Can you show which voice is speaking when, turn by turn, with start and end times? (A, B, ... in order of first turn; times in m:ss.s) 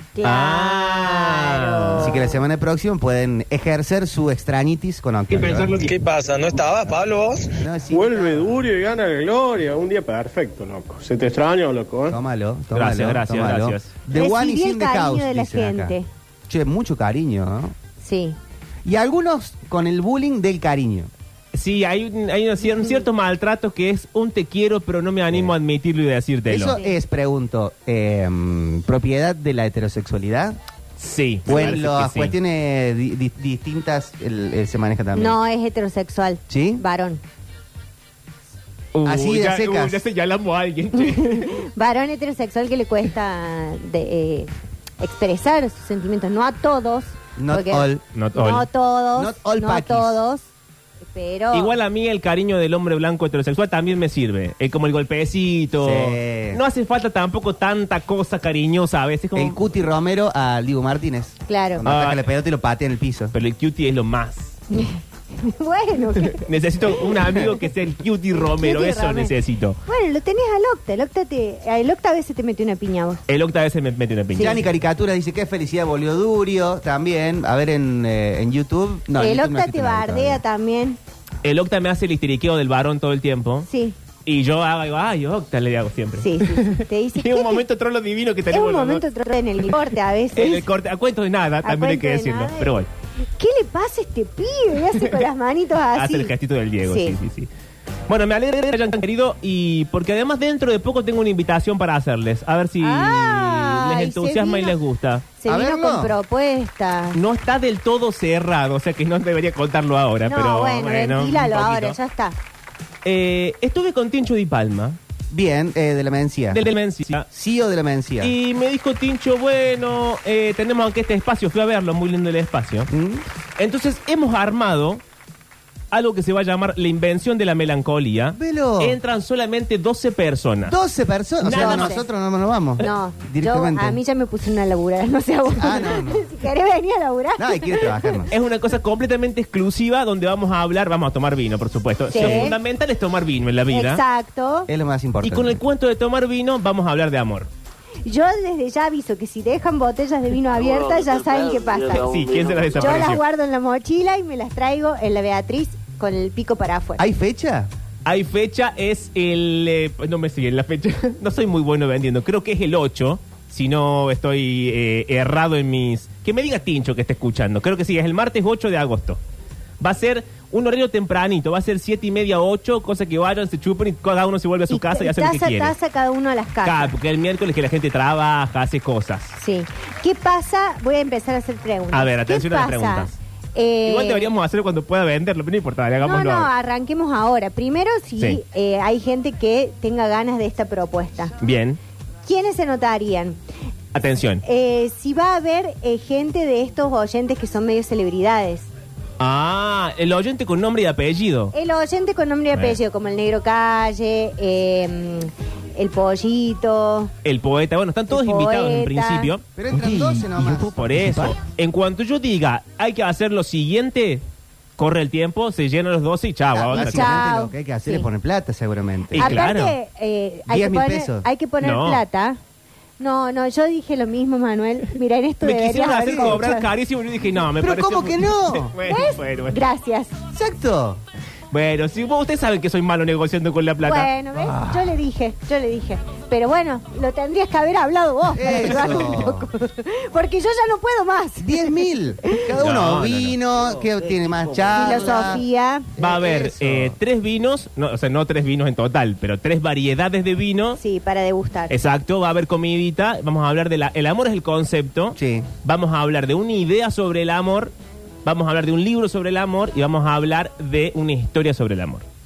0:00.2-0:02.3 A
0:00.2-0:02.1 B
0:02.0-0:05.8 C
0:05.3-0:07.6 D
0:07.6-0:08.6 C
0:07.9-0:12.2 E
0:12.1-0:15.9 C
0:12.7-0:13.9 B
0:14.1-0:16.1 A
0:16.5-0:17.8 C
0:18.0-0:18.4 A
0:18.8-0:21.1 C
0:21.5-0:26.8 B
0:26.5-0:30.6 C
0:31.0-0:32.3 B
0:31.4-0:35.4 C
0:35.1-0:37.2 A
0:36.5-0:36.8 C
0:38.9-0:41.5 B
0:39.0-0:40.0 C
0:41.0-0:44.5 A
0:45.0-0:50.4 A
0:47.4-0:48.0 C
0:48.1-0:48.6 B
0:49.2-0:50.2 C
0:51.1-0:51.7 A
0:51.5-0:59.6 B
0:55.8-0:56.6 C
0:59.3-1:03.3 C
1:01.5-1:01.8 A
1:01.8-1:02.2 B
1:03.3-1:04.6 B
1:04.7-1:06.4 A
1:06.2-1:09.8 B
1:08.4-1:09.3 A
1:09.9-1:13.2 A
1:13.3-1:14.6 B
1:14.3-1:14.6 A
1:14.4-1:20.4 C
1:19.2-1:21.0 A
1:21.4-1:23.7 B
1:23.7-1:24.0 A
1:24.2-1:29.0 B
1:26.2-1:27.6 A
1:28.5-1:30.6 A
1:30.3-1:32.9 B
1:31.6-1:32.8 A
1:33.4-1:36.3 A
1:35.9-1:37.5 B
1:36.8-1:37.2 A
1:38.1-1:45.3 B
1:42.8-1:44.7 A
1:45.4-1:47.2 A
1:45.5-1:46.1 C
1:47.1-1:52.0 B
1:50.3-1:52.4 A
1:53.0-1:55.0 B
1:55.3-1:56.6 C
1:56.5-1:57.3 B
1:57.3-1:58.3 C
1:58.2-2:02.9 B
2:02.9-2:03.2 C
2:03.6-2:05.0 B
2:05.9-2:10.7 B
2:08.3-2:09.0 C
2:10.6-2:14.0 C
2:11.4-2:12.0 B
2:11.5-2:12.0 A
2:12.8-2:18.2 A
2:15.5-2:16.3 C
2:17.4-2:18.3 C
2:18.3-2:24.0 B
2:22.1-2:22.6 A
2:22.2-2:22.5 C
2:23.7-2:24.7 A
2:24.7-2:25.6 C
2:25.2-2:27.5 B
2:28.0-2:37.0 A
2:31.2-2:32.7 D
2:31.9-2:33.2 B
2:37.0-2:37.7 C
2:38.0-2:49.2 B
2:49.8-2:55.7 B
2:54.7-2:56.9 A
2:56.6-2:59.4 B
2:59.4-3:04.3 A
3:01.9-3:03.2 B
3:03.8-3:06.5 B
3:06.0-3:11.3 A
3:11.4-3:11.8 B
3:12.2-3:13.4 A
3:13.9-3:14.4 B
3:14.4-3:18.7 A
3:19.2-3:21.5 B
3:21.5-3:27.1 A
3:27.2-3:34.2 B
3:28.1-3:29.3 A
3:29.6-3:31.4 C
3:34.8-3:37.2 B
3:36.5-3:39.4 C
3:36.7-3:38.0 A
3:39.1-3:39.7 B
3:39.2-3:42.4 A
3:40.5-3:41.2 C
3:41.6-3:42.0 B
3:43.0-3:46.6 A
3:45.4-3:49.6 B
3:46.0-3:46.4 C
3:47.6-3:48.7 C
3:48.8-3:50.2 A
3:50.3-3:51.0 C
3:51.5-3:54.8 B
3:53.8-4:01.8 A
3:58.3-3:59.5 C
4:01.4-4:05.4 C
4:02.6-4:03.4 B
4:04.7-4:05.9 A
4:06.0-4:07.0 C
4:06.0-4:10.8 B
4:10.8-4:11.7 A
4:11.7-4:17.7 B
4:15.2-4:15.5 C
4:18.2-4:22.0 B